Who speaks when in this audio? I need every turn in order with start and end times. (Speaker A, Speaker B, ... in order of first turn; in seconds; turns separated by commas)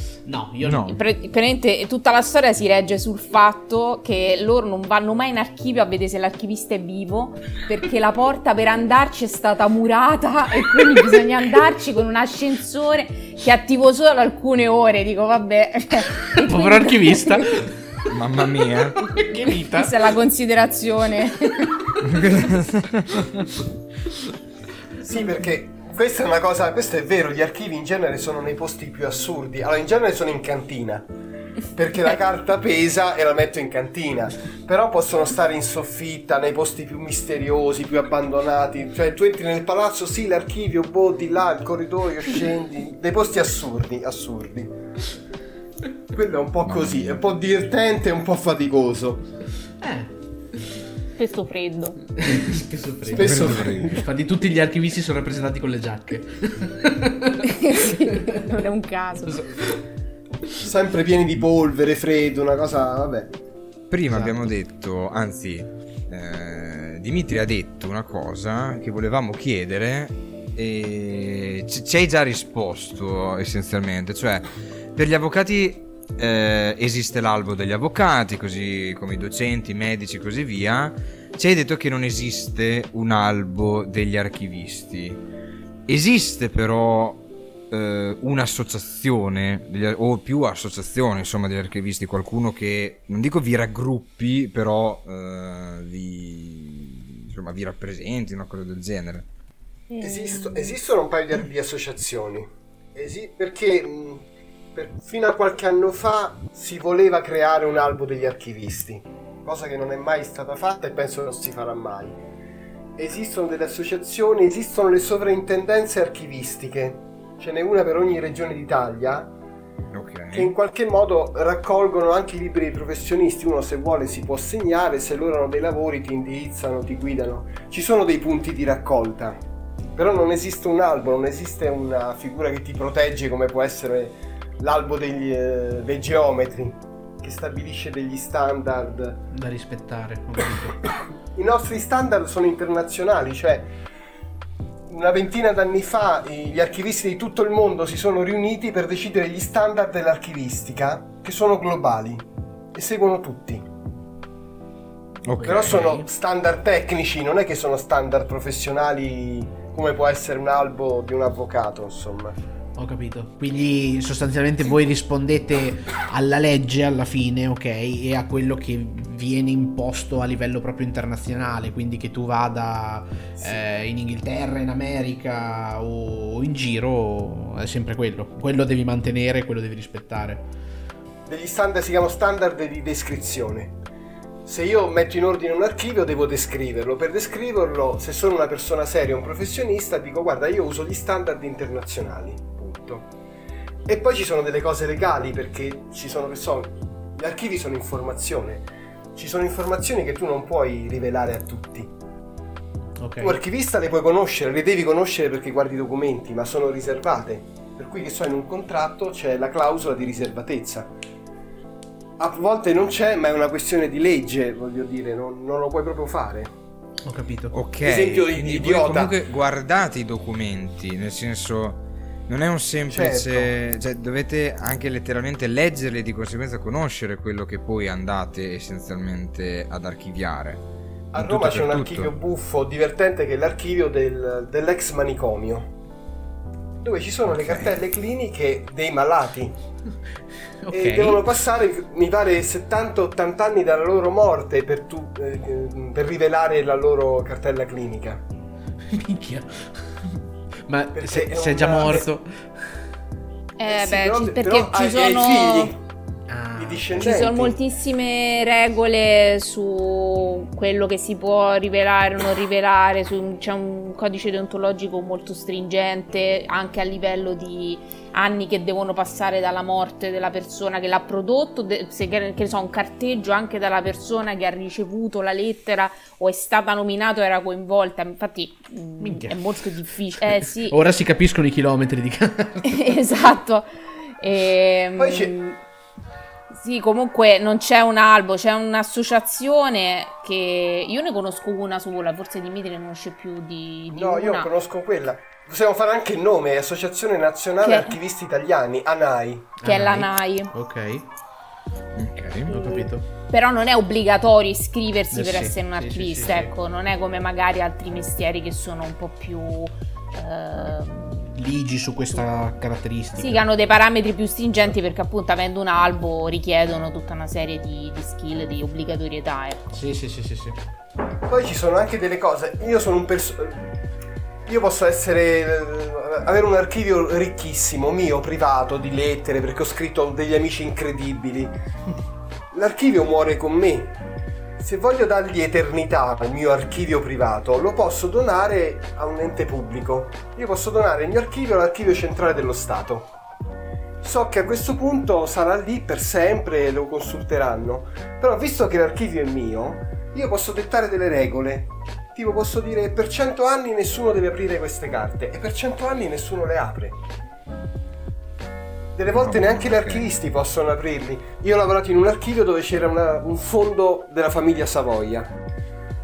Speaker A: 0.2-1.0, Speaker B: 0.6-1.0, Speaker C: 0.9-17.4, Speaker A: 16.4-17.7, Speaker B: 18.0-19.0, Speaker A: 19.1-19.9, Speaker C: 19.4-21.9, Speaker B: 22.0-23.3, Speaker D: 25.0-31.1, Speaker D: 31.7-44.7, Speaker D: 46.1-49.2, Speaker B: 46.6-47.2, Speaker A: 49.8-50.6, Speaker C: 51.2-52.0, Speaker A: 52.2-58.5, Speaker D: 53.1-54.0, Speaker B: 53.1-54.0, Speaker C: 57.4-59.5, Speaker A: 59.3-59.8, Speaker D: 60.6-63.4, Speaker B: 63.9-85.2, Speaker A: 64.1-64.5, Speaker B: 85.9-99.3, Speaker C: 99.9-100.8, Speaker D: 100.0-112.2, Speaker D: 113.0-119.3, Speaker B: 119.9-120.5, Speaker D: 120.3-129.4, Speaker D: 129.9-139.2, Speaker A: 139.3-140.9, Speaker D: 141.3-143.7, Speaker D: 144.9-153.6, Speaker B: 155.3-155.9, Speaker A: 155.4-156.1, Speaker D: 155.4-162.4, Speaker A: 162.8-180.5, Speaker D: 181.3-183.8, Speaker D: 184.5-193.1, Speaker D: 193.9-201.9, Speaker A: 203.0-203.4, Speaker D: 203.2-210.9, Speaker D: 212.2-216.5, Speaker A: 217.0-217.6, Speaker B: 217.5-230.6, Speaker D: 217.8-219.2, Speaker D: 222.9-223.5, Speaker D: 231.1-235.7, Speaker B: 231.2-232.1, Speaker D: 236.8-239.6, Speaker B: 237.3-237.8, Speaker A: 240.6-241.2, Speaker D: 240.7-248.2, Speaker A: 248.9-252.8, Speaker D: 250.9-252.1, Speaker C: 253.6-255.8, Speaker D: 253.7-255.8, Speaker A: 256.3-257.1, Speaker D: 256.6-257.6, Speaker C: 256.9-280.8, Speaker A: 279.0-279.6, Speaker A: 280.2-283.0, Speaker C: 282.7-285.6, Speaker D: 285.0-285.3, Speaker C: 286.5-294.5, Speaker D: 293.9-299.5, Speaker C: 297.6-298.0, Speaker A: 299.6-301.1, Speaker C: 299.6-300.5, Speaker B: 301.9-302.5, Speaker A: 302.5-303.1, Speaker C: 302.5-311.4, Speaker A: 305.1-306.5, Speaker A: 311.4-313.5, Speaker C: 313.2-319.8, Speaker A: 319.7-320.6, Speaker D: 321.2-323.7, Speaker D: 324.5-331.5, Speaker D: 332.5-333.9, Speaker D: 334.6-343.1, Speaker D: 344.0-357.0, Speaker D: 358.9-365.4, Speaker B: 359.2-360.1